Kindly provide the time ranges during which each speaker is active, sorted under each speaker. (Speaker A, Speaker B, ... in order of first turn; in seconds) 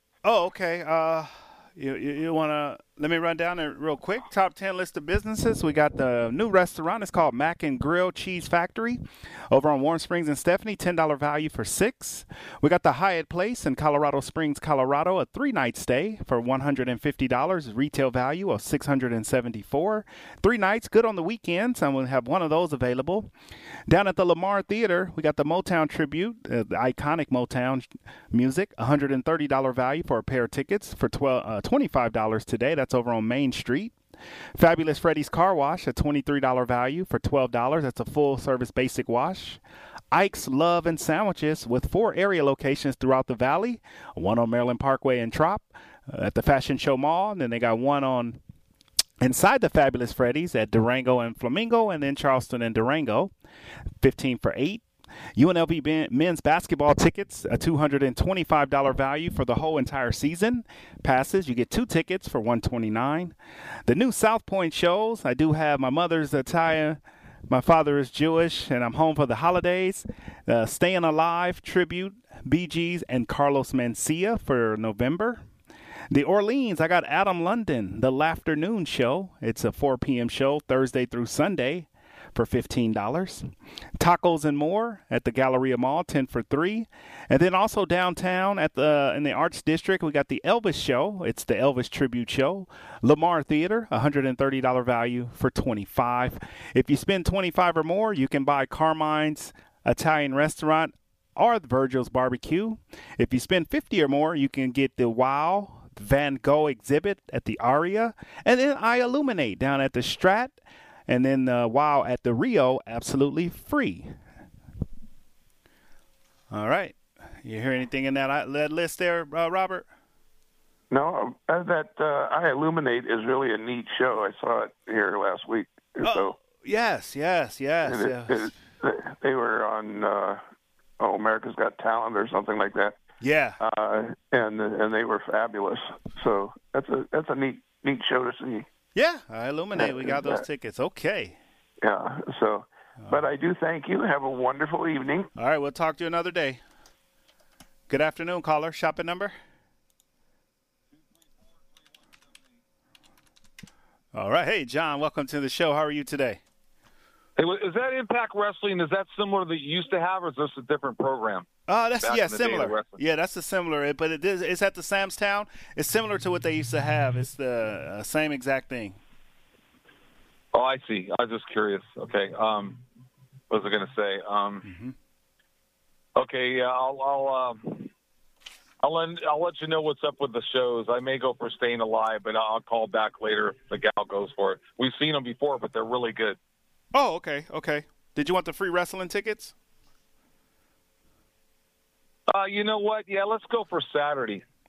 Speaker A: 0.2-23.3, 23.9-33.9, 34.5-39.6, 40.1-48.4, 49.2-53.3, 54.0-54.8, 55.4-63.3, 63.9-75.4, 76.1-83.5, 84.0-110.6, 111.1-114.1, 116.5-119.9, 126.0-128.5, 133.2-133.6, 138.9-141.4, 145.3-146.6, 147.9-149.3, 154.1-156.4, 161.7-169.0, 174.6-174.9, 186.9-189.5
Speaker B: 120.9-126.3, 127.8-130.4, 131.0-132.9, 133.6-138.7, 139.7-140.4, 141.8-145.3
Speaker C: 157.4-161.4, 162.0-163.0, 170.5-172.8, 173.5-174.6, 176.2-177.9, 178.8-186.4, 192.3-194.4